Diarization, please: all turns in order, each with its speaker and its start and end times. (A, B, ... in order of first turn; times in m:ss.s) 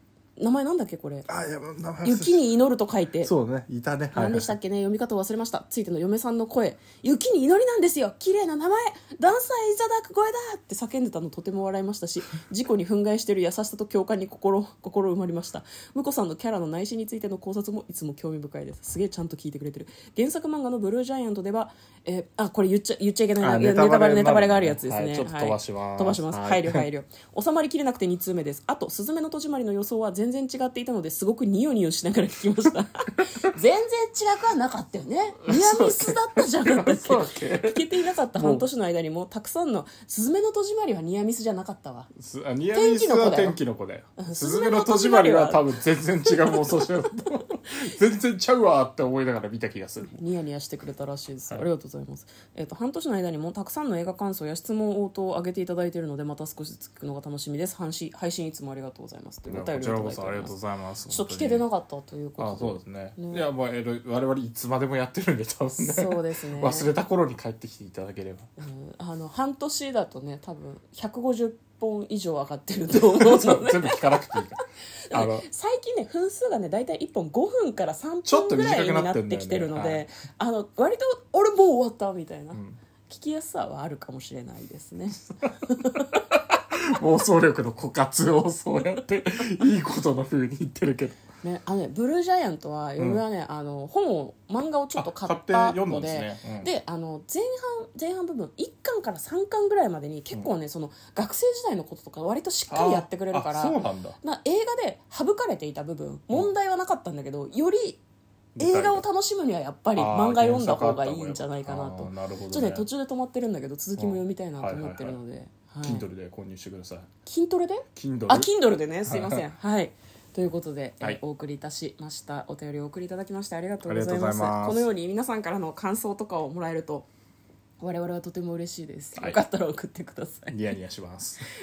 0:00.4-0:01.3 A
0:01.3-0:02.4 B
0:02.0-0:03.3 A
0:03.2-0:04.5 B
0:04.1-0:42.1 A
0:23.4-0:26.8 B
0:35.4-0:38.6 B
0:42.2-0:50.2 B
0:42.7-0:43.6 A
0:44.2-0:45.7 A
0:50.1-1:00.6 A
0:59.5-1:01.6 B
1:01.1-1:03.4 A
1:02.4-1:08.5 B
1:05.8-1:06.9 A
1:08.6-1:26.2 A
1:12.9-1:14.6 B
1:15.1-1:15.5 B
1:18.2-1:20.0 B
1:22.5-1:22.8 B
1:26.1-1:31.2 B
1:31.4-1:48.0 A
1:33.0-1:33.2 B
1:34.9-1:36.7 B
1:42.7-1:44.2 B
1:48.6-1:49.0 B
1:48.6-1:56.0 A
1:50.0-1:52.8 B
1:54.0-1:55.2 B
1:55.8-1:57.1 B
1:57.2-2:07.1 A
1:57.9-1:58.5 B
1:59.1-1:59.4 B
2:03.8-2:04.8 B
2:07.8-2:10.6 A
2:09.1-2:09.4 B
2:10.5-2:11.4 B